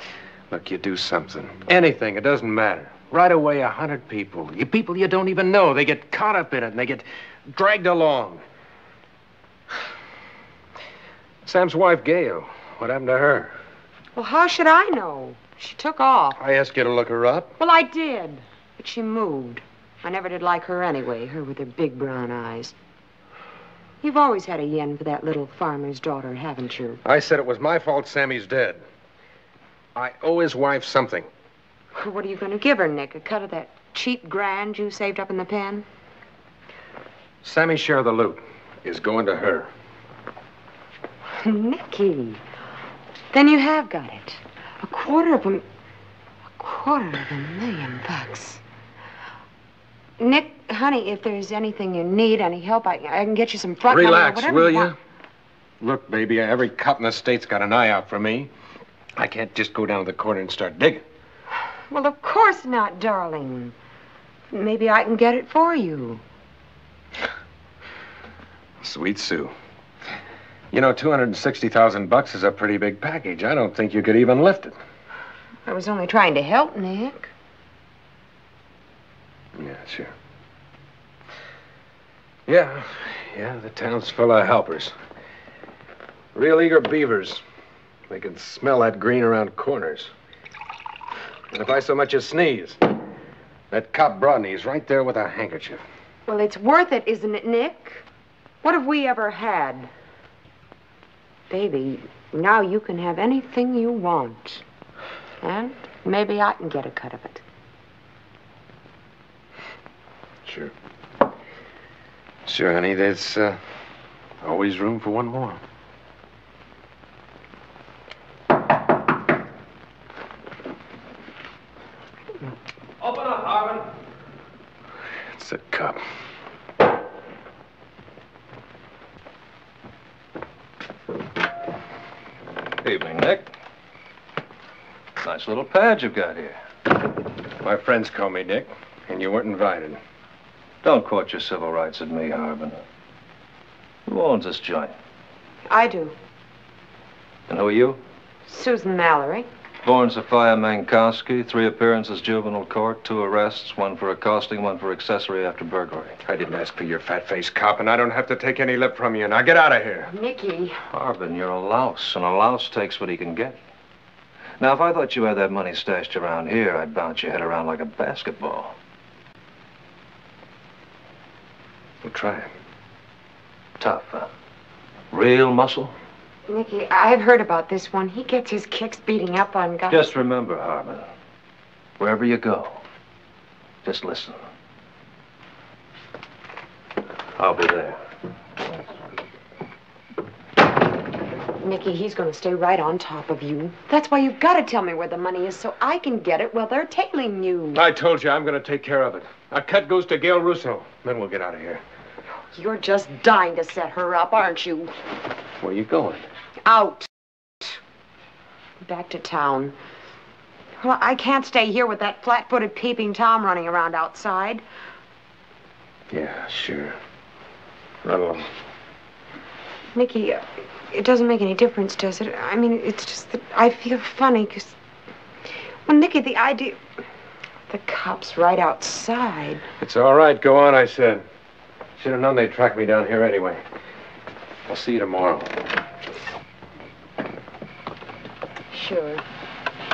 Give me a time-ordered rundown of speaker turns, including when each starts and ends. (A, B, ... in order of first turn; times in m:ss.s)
0:00.5-0:08.4 A
0:11.4-0:13.6 A
0:14.1-0:16.4 B
0:16.4-0:17.5 A
0:17.6-0:22.7 B
0:24.0-0:27.0 B
0:27.0-0:28.8 A
0:29.9-0:31.3 A
0:32.0-0:35.8 B
0:37.4-0:39.7 A
0:41.4-0:42.4 B
0:43.3-0:45.6 B
0:46.6-0:48.6 B
0:50.2-0:54.9 B
0:53.9-0:55.0 A
0:55.8-0:58.5 A
0:59.2-1:01.0 A
1:01.9-1:03.7 B
1:04.5-1:06.2 B
1:08.8-1:09.5 A
1:10.7-1:14.8 A
1:15.6-1:17.3 B
1:19.6-1:20.1 A
1:22.5-1:24.9 A
1:26.3-1:27.4 A
1:28.1-1:30.1 A
1:31.5-1:32.8 A
1:33.7-1:35.8 A
1:36.3-1:38.0 B
1:38.6-1:39.9 B
1:41.5-1:44.6 B
1:45.4-1:47.4 B
1:50.4-1:50.7 A
1:52.4-1:53.6 A
1:54.4-1:55.6 A
2:03.4-2:03.7 A
2:05.3-2:06.0 A
2:12.8-2:13.5 C
2:15.2-2:16.6 C
2:17.6-2:20.0 A
2:20.8-2:22.8 C
2:24.0-2:24.9 C
2:25.7-2:26.2 B
2:27.5-2:28.0 C
2:28.5-2:29.5 B
2:29.8-2:36.2 C
2:36.2-2:40.1 A
2:40.1-2:40.8 B
2:40.9-2:43.6 C
2:44.6-2:48.7 C
2:52.0-2:52.5 C
2:53.8-2:54.3 C
2:55.1-2:55.9 C
2:56.5-3:00.0 B
2:59.9-3:01.0 C
3:02.0-3:02.8 C
3:03.8-3:04.4 C
3:07.4-3:08.0 C
3:11.5-3:17.8 B
3:17.7-3:21.8 A
3:22.5-3:24.9 B
3:25.6-3:26.2 A
3:26.6-3:27.1 B
3:28.8-3:29.7 B
3:30.8-3:34.6 B
3:36.1-3:37.0 A
3:38.0-3:38.5 A
3:39.9-3:44.7 B
3:45.8-3:46.8 B
3:47.7-3:49.6 B
3:49.8-3:51.2 A
3:52.0-3:53.6 A
3:54.7-3:55.5 A
3:58.7-3:59.2 B